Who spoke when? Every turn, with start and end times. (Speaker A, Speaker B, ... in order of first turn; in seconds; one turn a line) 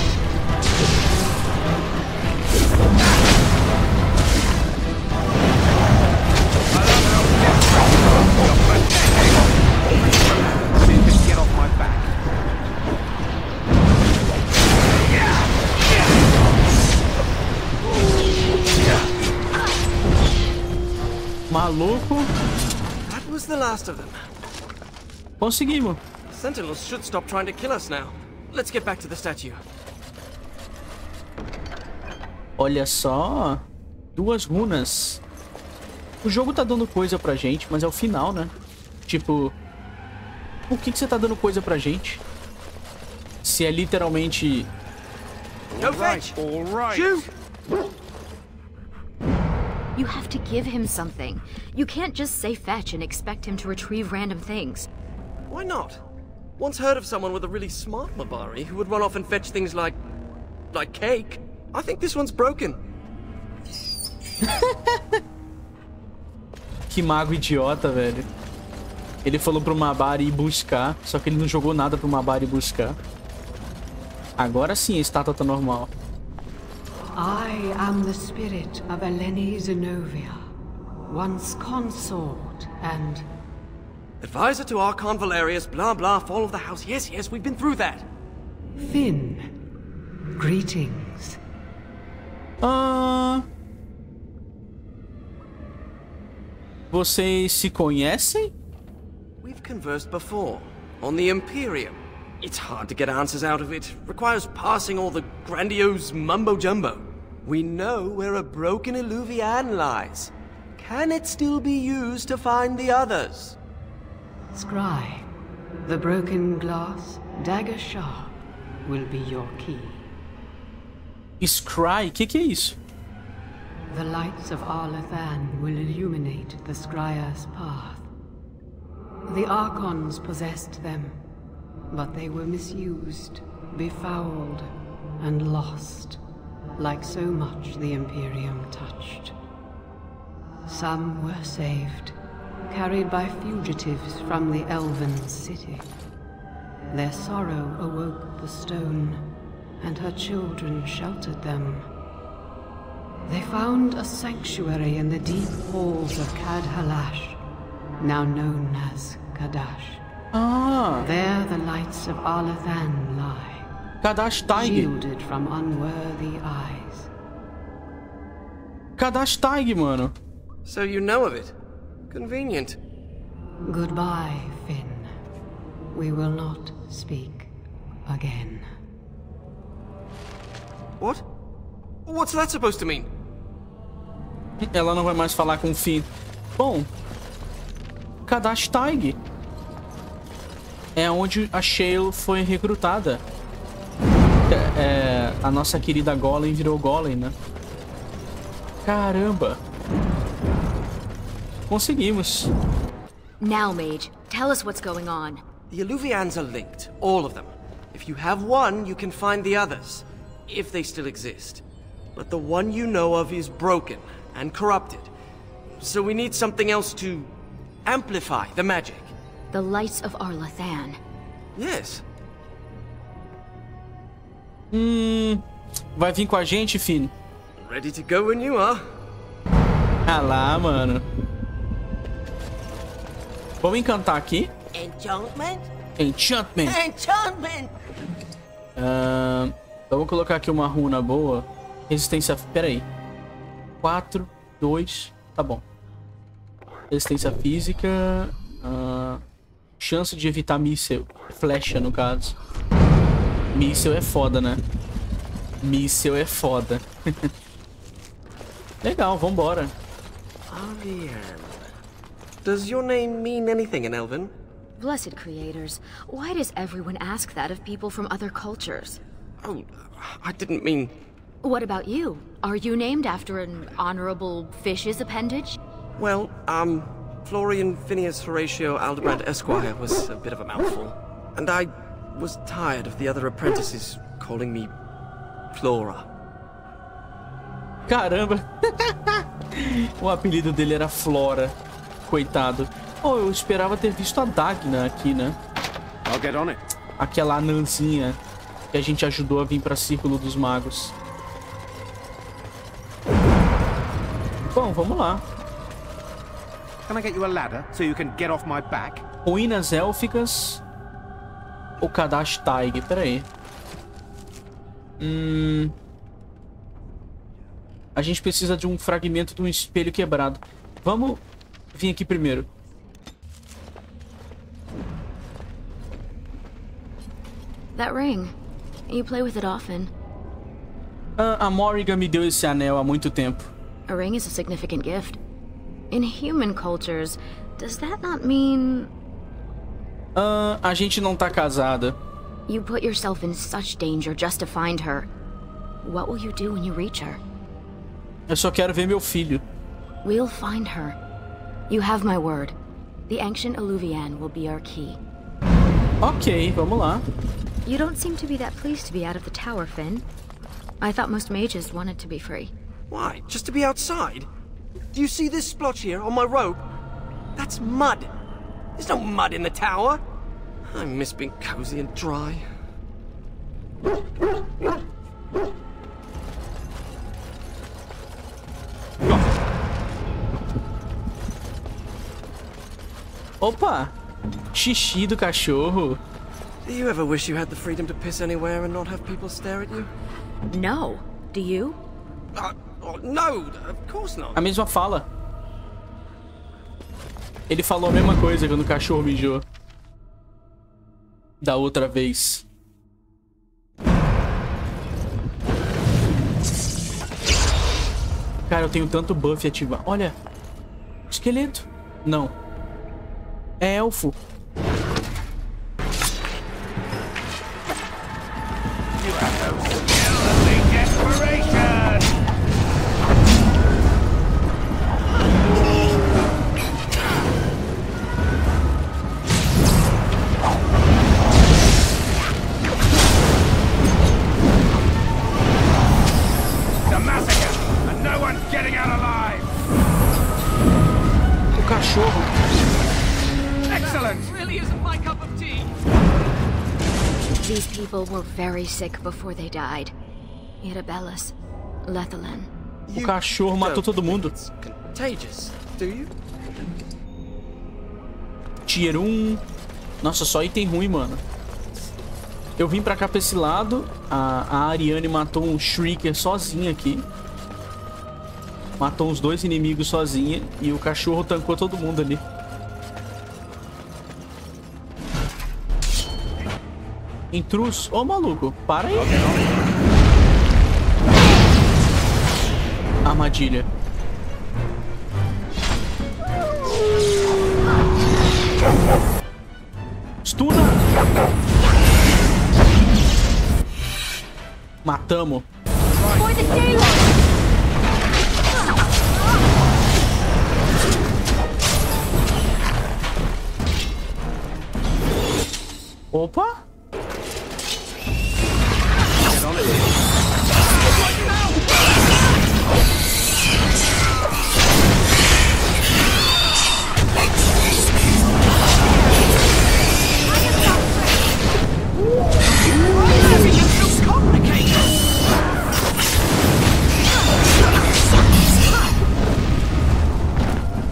Speaker A: 6.7-9.4
Speaker A: 10.6-12.1
Speaker B: 21.5-22.3
Speaker C: 23.0-24.2
Speaker B: 25.4-26.0
Speaker C: 26.3-29.6
Speaker B: 32.6-33.6
Speaker B: 34.2-35.2
Speaker B: 36.2-38.5
Speaker B: 39.1-39.5
Speaker B: 40.7-42.2
Speaker B: 43.4-44.7
Speaker A: 45.7-47.2
Speaker C: 45.8-46.4
Speaker C: 46.9-47.2
Speaker D: 50.0-54.9
Speaker C: 55.5-56.0
Speaker C: 56.6-60.0
Speaker C: 60.7-62.8
Speaker B: 64.5-65.2
Speaker B: 66.9-68.3
Speaker B: 69.2-73.0
Speaker B: 74.4-75.9
Speaker E: 77.2-80.4
Speaker E: 81.1-83.3
Speaker C: 84.2-88.1
Speaker E: 88.8-89.7
Speaker E: 90.3-91.4
Speaker B: 92.6-93.5
Speaker B: 96.9-98.5
Speaker C: 99.4-113.6
Speaker E: 114.5-115.3
Speaker E: 115.8-120.1
Speaker B: 121.4-122.8
Speaker E: 123.9-128.1
Speaker E: 129.3-131.3
Speaker E: 131.9-136.2
Speaker E: 136.8-139.3
Speaker E: 140.7-142.2
Speaker E: 142.7-145.9
Speaker E: 146.9-151.9
Speaker E: 153.3-157.4
Speaker E: 158.0-160.0
Speaker B: 160.3-161.1
Speaker E: 161.0-163.7
Speaker B: 164.0-164.9
Speaker E: 164.6-167.1
Speaker B: 169.0-170.1
Speaker C: 170.7-171.6
Speaker C: 172.1-172.8
Speaker E: 173.6-175.1
Speaker E: 175.9-177.5
Speaker E: 178.1-178.7
Speaker C: 181.0-181.2
Speaker C: 182.1-183.1
Speaker B: 184.6-186.9
Speaker B: 188.3-189.2
Speaker B: 191.0-193.2
Speaker B: 194.5-197.3
Speaker B: 198.8-199.6
Speaker B: 201.7-202.5
Speaker D: 203.4-205.4
Speaker C: 205.7-211.6
Speaker C: 212.2-215.1
Speaker C: 215.8-217.3
Speaker C: 217.8-219.2
Speaker D: 219.5-221.0
Speaker C: 221.6-222.0
Speaker B: 224.7-225.4
Speaker B: 226.0-227.1
Speaker C: 227.6-228.8
Speaker B: 230.1-231.1
Speaker B: 233.6-234.5
Speaker F: 234.7-235.7
Speaker B: 236.0-236.8
Speaker F: 236.7-237.8
Speaker B: 238.8-242.9
Speaker B: 243.8-245.6
Speaker B: 246.9-249.2
Speaker B: 249.8-252.4
Speaker B: 253.5-254.6
Speaker B: 255.6-257.3
Speaker B: 258.8-259.7
Speaker C: 260.5-261.6
Speaker C: 262.4-264.3
Speaker D: 264.8-269.0
Speaker C: 269.4-271.0
Speaker D: 271.4-275.6
Speaker C: 276.0-284.7
Speaker C: 285.5-286.1
Speaker B: 287.9-295.4
Speaker A: 296.1-296.6
Speaker B: 297.0-298.2
Speaker B: 298.7-300.9
Speaker B: 304.5-305.2
Speaker A: 306.9-309.1
Speaker B: 309.2-310.6
Speaker B: 311.8-313.3
Speaker B: 315.0-315.7
Speaker B: 317.9-321.2
Speaker B: 321.7-322.5
Speaker D: 327.8-328.3
Speaker D: 328.9-329.9
Speaker B: 331.2-333.5
Speaker D: 333.9-335.2
Speaker D: 335.9-338.9
Speaker B: 340.1-342.0
Speaker D: 342.5-345.1
Speaker D: 345.8-347.2
Speaker B: 348.3-349.4
Speaker D: 350.0-351.0
Speaker D: 351.7-352.6
Speaker D: 353.1-355.0
Speaker B: 356.0-357.1
Speaker D: 357.6-360.1
Speaker D: 360.8-362.5
Speaker C: 362.9-364.3
Speaker C: 364.9-366.6
Speaker C: 367.4-368.1
Speaker C: 368.8-370.0
Speaker C: 370.7-372.4
Speaker B: 383.4-383.9
Speaker B: 384.5-386.0
Speaker C: 386.6-389.9
Speaker D: 390.5-391.8
Speaker C: 392.4-394.4
Speaker B: 394.4-395.1
Speaker B: 397.5-399.4
Speaker B: 401.4-402.4
Speaker B: 408.5-410.2
Speaker B: 411.1-412.3
Speaker B: 413.6-414.2
Speaker A: 419.0-422.1
Speaker A: 436.9-439.5
Speaker B: 441.6-442.4
Speaker A: 443.7-444.6
Speaker C: 444.7-445.6
Speaker D: 447.4-449.9
Speaker D: 450.6-451.3
Speaker D: 451.9-452.5
Speaker C: 452.9-456.1
Speaker B: 452.9-454.3
Speaker B: 458.7-459.4
Speaker B: 460.0-461.2
Speaker B: 462.6-467.1
Speaker B: 468.8-472.2
Speaker B: 477.3-479.2
Speaker A: 478.9-479.6
Speaker B: 483.1-483.7
Speaker B: 490.2-490.8
Speaker B: 494.8-495.5
Speaker A: 495.9-497.0
Speaker B: 506.1-506.6
Speaker A: 509.2-509.9
Speaker C: 520.5-520.8
Speaker C: 522.5-524.9